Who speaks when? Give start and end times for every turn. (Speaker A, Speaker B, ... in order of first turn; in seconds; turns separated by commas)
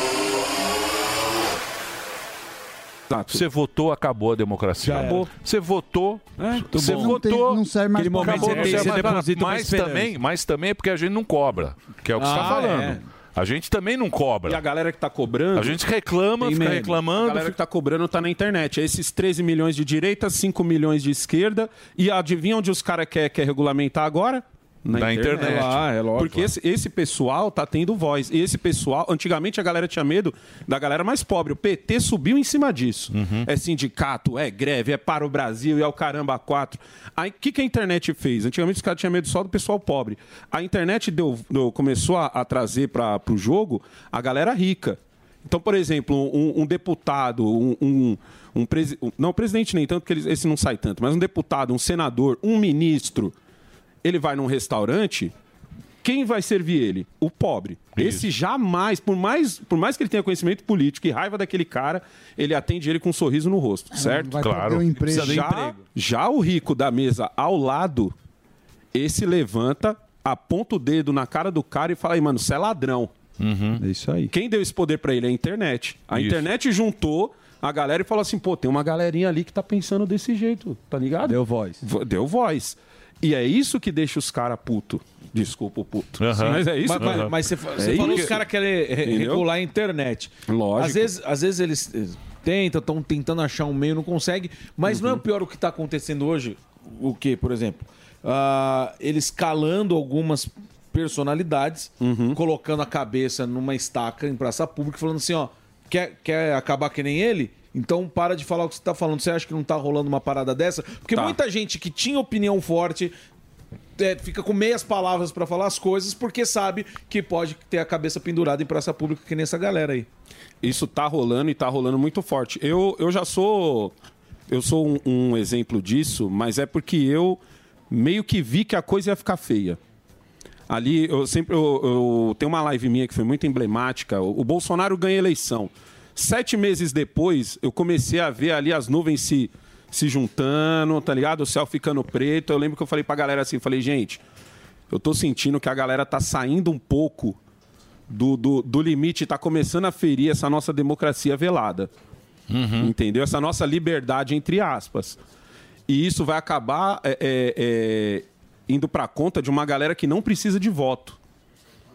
Speaker A: 3.1-3.4, Speaker B: 3.3-7.6, Speaker C: 4.8-5.2, Speaker D: 6.7-8.9, Speaker E: 7.9-10.1, Speaker B: 8.2-14.6, Speaker C: 12.2-13.0, Speaker A: 14.4-15.8, Speaker B: 15.5-17.6, Speaker E: 16.4-17.0, Speaker A: 17.0-53.3, Speaker B: 24.9-26.5, Speaker C: 25.3-26.4, Speaker B: 33.1-33.5, Speaker A: 54.0-55.3, Speaker A: 56.0-64.3, Speaker B: 57.9-58.3, Speaker D: 63.9-65.5, Speaker B: 64.3-65.3, Speaker E: 65.1-65.7, Speaker A: 65.1-68.1, Speaker A: 68.9-73.1, Speaker B: 73.4-73.8, Speaker E: 73.8-74.3, Speaker A: 74.3-88.4, Speaker B: 76.1-76.5, Speaker E: 81.2-81.8, Speaker B: 86.2-88.4, Speaker C: 86.4-113.1, Speaker A: 89.0-89.5, Speaker A: 90.5-91.1, Speaker A: 94.9-95.2, Speaker A: 102.0-102.4, Speaker A: 111.1-111.4, Speaker C: 114.0-120.1, Speaker A: 120.6-123.9, Speaker A: 124.5-129.8, Speaker A: 130.7-144.2, Speaker A: 144.9-147.4, Speaker A: 148.1-151.9, Speaker B: 152.5-152.9, Speaker A: 152.8-155.2, Speaker A: 155.9-161.2